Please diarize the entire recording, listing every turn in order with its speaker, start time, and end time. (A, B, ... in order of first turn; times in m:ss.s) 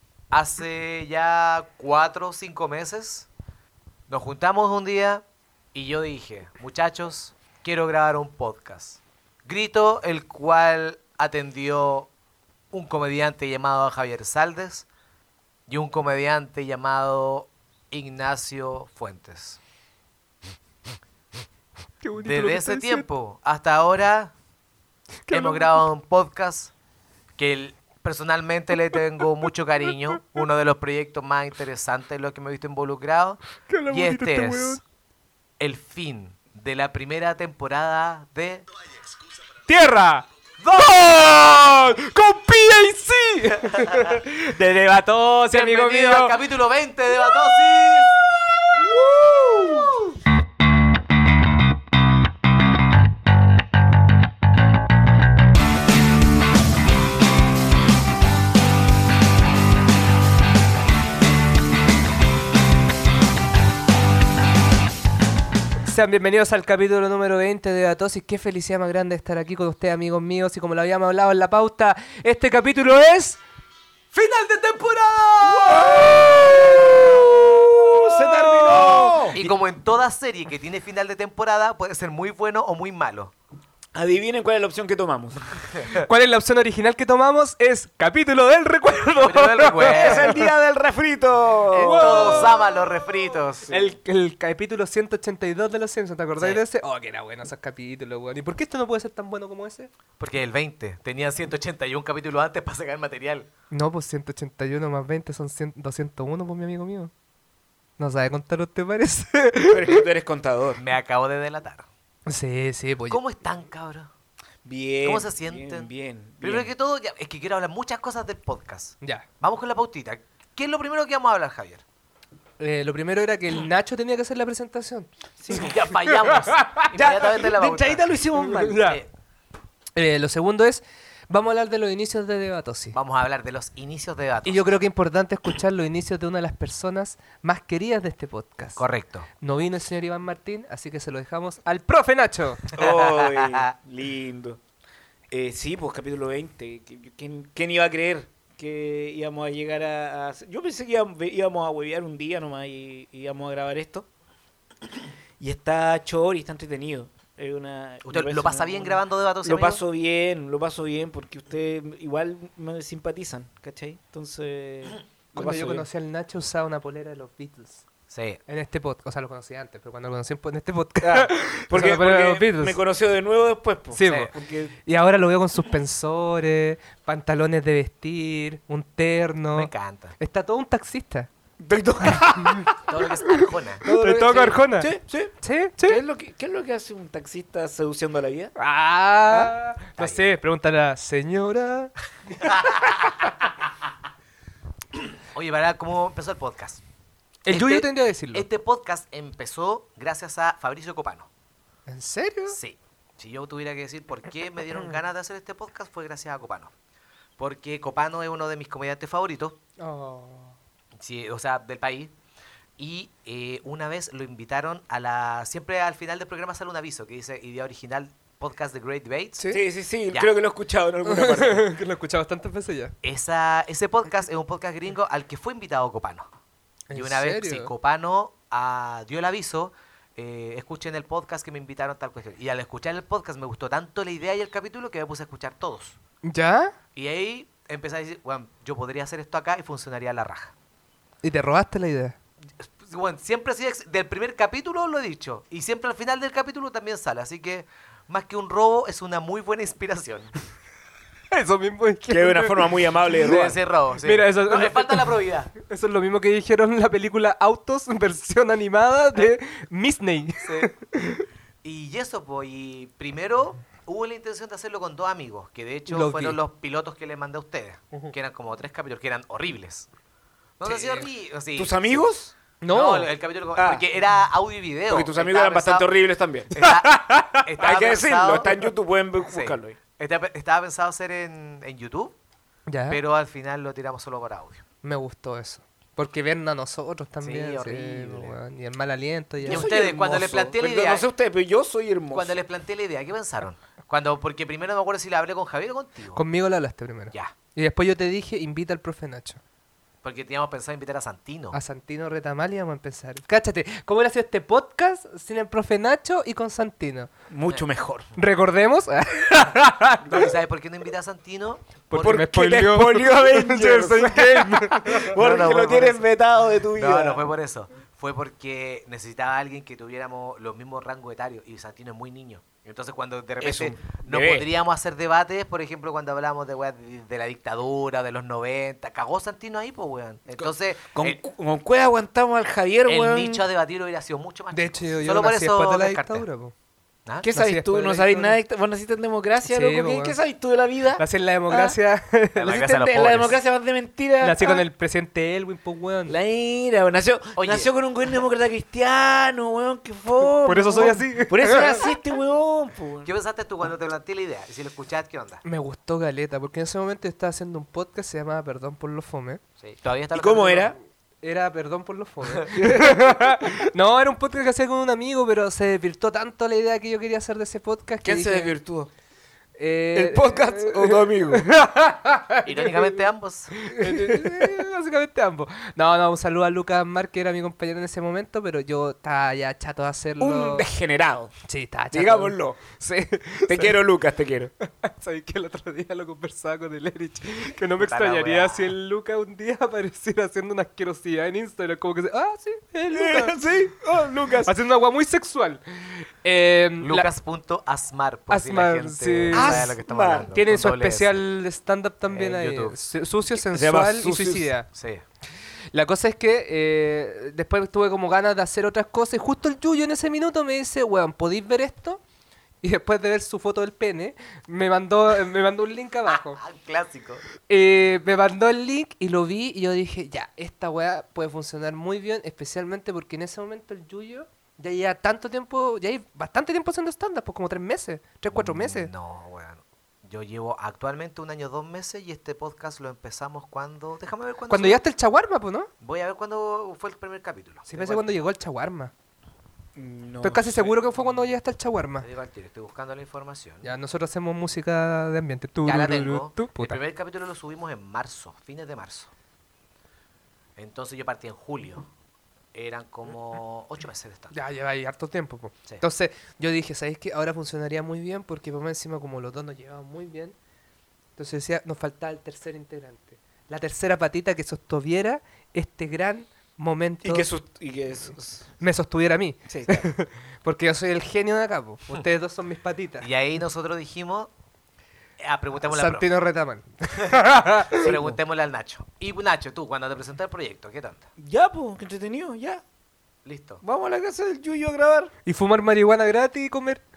0:00.3-0:03.3 A
0:04.1-0:12.1 A
0:12.7-0:14.9 A
0:15.7-0:19.6 A
0:22.0-0:23.0 B
0:22.2-0:24.3 A
0:25.3-0:25.8 B
0:25.3-0:26.7 A
0:27.4-0:34.8 A
0:33.7-0:34.8 B
0:35.6-0:38.6 A
0:39.7-0:46.4 B
0:40.6-0:40.9 A
0:43.7-0:44.2 A
0:45.4-0:48.1 A
0:48.9-0:49.9 B
1:05.8-1:13.4 B
1:14.1-1:17.3 A
1:15.5-1:19.5 B
1:15.6-1:19.4 C
1:19.3-1:23.3 A
1:23.9-1:25.4 C
1:25.7-1:26.0 A
1:25.9-1:30.5 B
1:29.2-1:30.4 A
1:29.8-1:32.5 C
1:31.7-1:33.0 B
1:31.7-1:33.8 A
1:33.7-1:39.9 B
1:36.4-1:36.6 A
1:40.2-1:43.5 A
1:43.7-1:47.1 B
1:48.0-1:50.0 B
1:49.7-1:50.8 C
1:50.8-1:51.9 A
1:52.3-1:53.2 B
1:53.1-1:54.1 A
1:54.6-1:56.7 C
1:55.0-1:55.9 A
1:56.4-2:01.8 A
2:02.6-2:06.9 B
2:05.4-2:05.9 C
2:05.5-2:08.1 A
2:06.9-2:08.9 C
2:08.3-2:09.0 B
2:08.8-2:09.1 A
2:09.9-2:13.0 B
2:12.9-2:14.8 A
2:14.4-2:18.8 B
2:18.8-2:19.3 A
2:19.4-2:22.7 B
2:22.7-2:24.6 C
2:22.7-2:23.7 A
2:25.3-2:34.0 C
2:35.4-2:45.8 C
2:38.0-2:39.8 A
2:45.3-2:47.8 B
2:48.1-2:48.4 A
2:48.5-2:52.8 B
2:51.0-2:54.7 C
2:53.9-2:54.3 B
2:54.8-3:01.3 B
2:59.5-3:00.1 A
3:01.6-3:02.7 C
3:02.0-3:02.7 B
3:02.8-3:03.8 A
3:03.8-3:08.5 C
3:03.9-3:06.0 B
3:08.6-3:12.9 B
3:09.3-3:10.3 A
3:12.4-3:13.2 A
3:15.3-3:16.8 A
3:17.4-3:18.4 B
3:17.5-3:21.3 A
3:21.9-3:22.6 B
3:22.5-3:26.7 A
3:27.4-3:29.6 A
3:29.8-3:30.5 B
3:31.0-3:32.1 A
3:32.8-3:39.4 A
3:39.5-3:41.7 C
3:41.0-3:42.9 B
3:43.0-3:46.3 A
3:46.9-3:47.7 B
3:46.9-3:56.0 A
3:56.2-3:56.7 B
3:56.9-4:00.5 A
4:01.2-4:02.2 B
4:02.6-4:10.3 A
4:11.3-4:21.2 B
4:12.1-4:13.6 C
4:13.2-4:15.5 A
4:20.4-4:20.7 A
4:21.6-4:29.9 A
4:25.9-4:26.4 B
4:30.6-4:32.1 A
4:30.6-4:32.3 C
4:32.6-4:33.1 B
4:32.7-4:35.9 A
4:33.6-4:33.8 C
4:34.9-4:36.5 C
4:36.5-4:38.5 A
4:36.6-4:37.4 B
4:37.6-4:39.8 C
4:39.3-4:42.2 A
4:42.7-4:43.0 B
4:42.9-4:44.6 A
4:44.8-4:49.7 B
4:47.2-4:48.4 A
4:49.4-4:52.4 C
4:49.4-4:51.0 A
4:52.1-4:56.2 A
4:56.2-4:59.4 B
5:00.0-5:01.6 A
5:01.5-5:07.1 B
5:07.3-5:08.1 C
5:08.2-5:10.3 B
5:10.0-5:11.7 A
5:11.9-5:15.1 B
5:11.9-5:17.2 C
5:15.1-5:16.0 A
5:16.7-5:31.2 A
5:23.4-5:24.5 C
5:30.4-5:33.4 C
5:32.9-5:36.2 A
5:34.5-5:36.5 B
5:37.2-5:41.8 C
5:37.3-5:38.4 B
5:39.5-5:40.2 B
5:41.0-5:42.8 B
5:42.4-5:43.4 A
5:42.5-5:44.6 C
5:44.2-5:46.1 B
5:46.1-5:53.1 C
5:47.4-5:47.7 A
5:50.4-5:51.9 B
5:53.0-5:55.4 A
5:55.4-5:59.4 B
5:59.6-6:00.7 A
6:00.1-6:00.8 C
6:01.2-6:08.5 B
6:02.5-6:03.2 C
6:08.0-6:08.9 C
6:09.6-6:13.0 B
6:09.9-6:11.5 C
6:12.4-6:13.6 A
6:13.6-6:20.7 B
6:13.7-6:14.5 C
6:20.2-6:21.3 C
6:21.4-6:23.8 B
6:21.9-6:22.8 C
6:23.5-6:24.5 C
6:24.6-6:33.4 B
6:27.8-6:28.7 A
6:32.9-6:34.5 C
6:34.4-6:37.1 B
6:36.8-6:41.2 A
6:38.3-6:39.8 B
6:39.3-6:40.3 C
6:40.3-6:44.7 B
6:42.1-6:42.8 A
6:43.3-6:44.5 C
6:44.7-6:45.0 A
6:45.7-6:52.0 B
6:52.6-6:56.4 B
6:56.1-6:57.2 A
6:57.5-7:08.9 B
7:08.3-7:14.8 A
7:14.5-7:15.7 B
7:15.8-7:18.2 A
7:17.7-7:18.9 B
7:19.8-7:20.8 C
7:20.2-7:22.0 B
7:22.0-7:23.7 A
7:23.6-7:26.8 B
7:25.6-7:29.1 A
7:30.6-7:31.9 A
7:32.5-7:34.4 A
7:34.3-7:40.3 B
7:41.2-7:47.3 B
7:47.0-7:48.5 C
7:48.6-7:53.1 B
7:49.5-7:49.9 C
7:53.0-7:54.3 A
7:55.2-7:56.1 A
7:55.7-7:57.9 B
7:57.7-8:01.0 A
7:57.8-7:58.2 C
8:01.2-8:02.6 C
8:03.2-8:03.6 A
8:03.6-8:05.1 C
8:05.2-8:06.8 B